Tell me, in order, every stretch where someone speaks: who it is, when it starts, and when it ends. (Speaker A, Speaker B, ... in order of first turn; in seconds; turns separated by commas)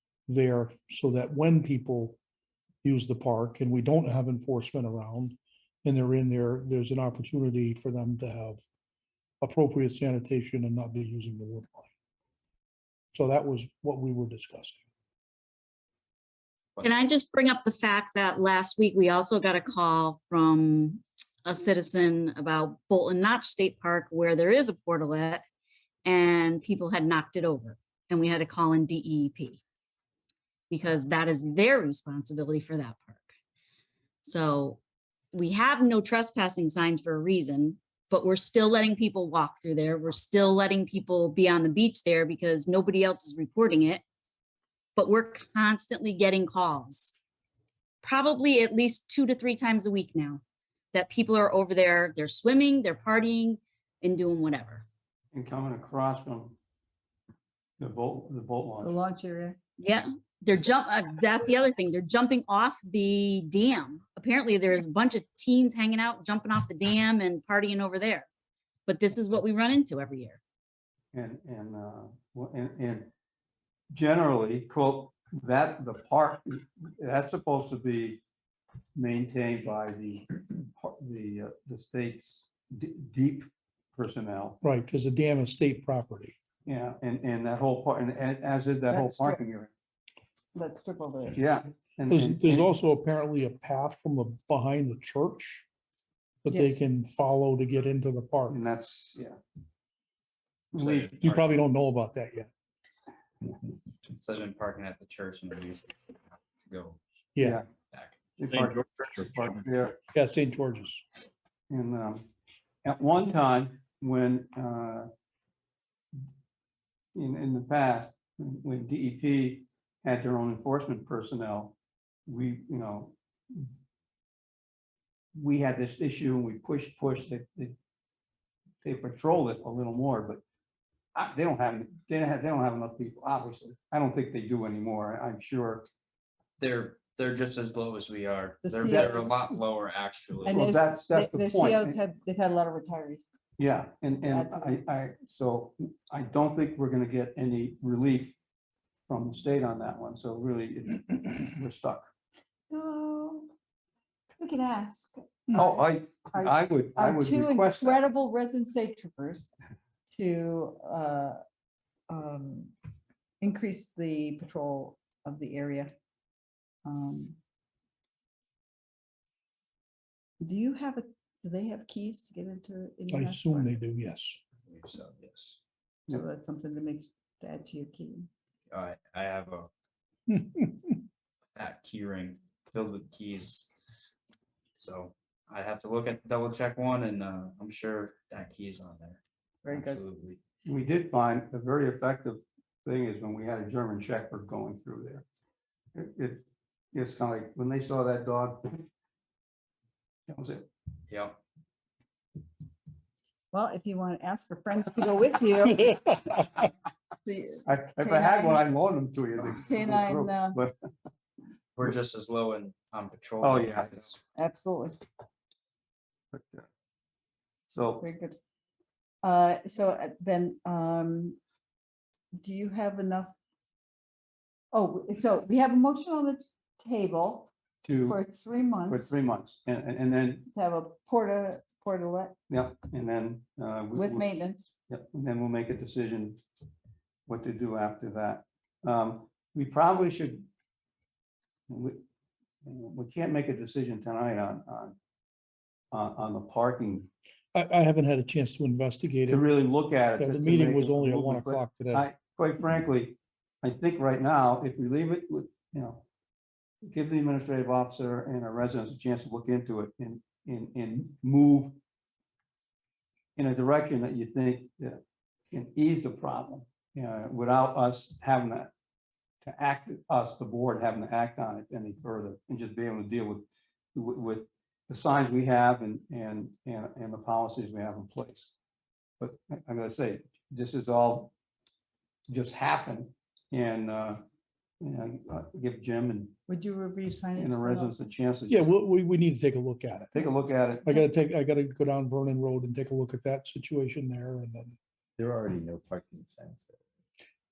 Speaker A: 0.3-2.2, Speaker A: 2.8-8.6, Speaker A: 9.4-11.9, Speaker A: 13.1-14.8, Speaker B: 16.8-25.4, Speaker B: 26.1-29.6, Speaker B: 30.7-33.3, Speaker B: 34.2-34.8, Speaker B: 35.3-44.0, Speaker B: 45.0-47.1, Speaker B: 48.0-50.4, Speaker B: 50.9-54.8, Speaker C: 55.3-56.6, Speaker C: 57.8-58.9, Speaker D: 58.8-59.6, Speaker B: 59.8-68.3, Speaker B: 68.9-70.4, Speaker C: 71.1-73.1, Speaker C: 73.9-78.2, Speaker C: 79.0-84.6, Speaker A: 84.6-86.3, Speaker C: 86.7-89.7, Speaker D: 88.9-89.4, Speaker D: 90.5-91.4, Speaker C: 91.3-92.7, Speaker A: 92.1-95.7, Speaker A: 96.4-98.6, Speaker D: 96.5-96.8, Speaker C: 98.5-99.4, Speaker C: 100.7-101.2, Speaker E: 100.8-101.5, Speaker A: 101.2-102.5, Speaker E: 104.1-107.0, Speaker A: 107.3-107.6, Speaker C: 107.4-107.7, Speaker E: 107.9-108.2, Speaker C: 108.4-110.0, Speaker F: 108.5-109.5, Speaker A: 110.1-111.0, Speaker C: 111.7-112.3, Speaker C: 112.8-115.1, Speaker C: 117.1-121.8, Speaker C: 122.3-123.7, Speaker C: 125.3-127.8, Speaker C: 128.8-130.4, Speaker C: 131.2-135.9, Speaker E: 136.6-140.6, Speaker D: 138.6-139.4, Speaker C: 138.8-139.2, Speaker D: 140.4-143.2, Speaker C: 140.5-142.0, Speaker C: 143.6-148.4, Speaker D: 144.3-144.8, Speaker C: 149.1-152.1, Speaker D: 152.7-153.5, Speaker D: 154.4-159.5, Speaker C: 155.5-158.0, Speaker D: 160.1-161.4, Speaker D: 162.1-162.7, Speaker D: 163.4-165.9, Speaker D: 166.8-167.4, Speaker D: 170.4-173.8, Speaker A: 173.1-174.4, Speaker E: 174.7-175.6, Speaker D: 176.1-178.3, Speaker E: 178.7-179.7, Speaker E: 181.6-183.7, Speaker E: 184.8-190.4, Speaker D: 189.6-190.0, Speaker C: 190.7-195.2, Speaker C: 195.9-198.8, Speaker C: 200.3-200.7, Speaker E: 201.1-201.4, Speaker D: 203.5-206.2, Speaker D: 207.2-208.6, Speaker C: 207.7-210.8, Speaker D: 209.6-210.6, Speaker E: 211.8-214.2, Speaker C: 213.4-214.1, Speaker D: 214.3-215.0, Speaker C: 216.3-216.7, Speaker C: 217.7-218.1, Speaker D: 218.0-218.4, Speaker D: 219.2-221.4, Speaker D: 222.3-223.3, Speaker D: 224.7-227.5, Speaker C: 227.8-228.2, Speaker D: 228.1-229.1, Speaker C: 228.9-230.5, Speaker D: 230.5-232.3, Speaker C: 232.5-234.3, Speaker D: 233.9-234.7, Speaker C: 234.9-236.4, Speaker C: 237.3-240.5, Speaker C: 241.7-242.0, Speaker C: 242.6-244.9, Speaker C: 245.9-247.1, Speaker A: 247.5-249.5, Speaker C: 249.2-256.1, Speaker A: 250.2-252.1, Speaker C: 256.8-261.8, Speaker C: 263.4-265.0, Speaker C: 265.5-268.7, Speaker C: 269.4-278.5, Speaker C: 279.2-281.3, Speaker C: 282.3-284.2, Speaker C: 284.8-286.4, Speaker D: 286.5-288.1, Speaker C: 287.4-288.7, Speaker A: 288.5-290.3, Speaker C: 290.1-290.9, Speaker A: 290.9-294.8, Speaker F: 295.2-296.8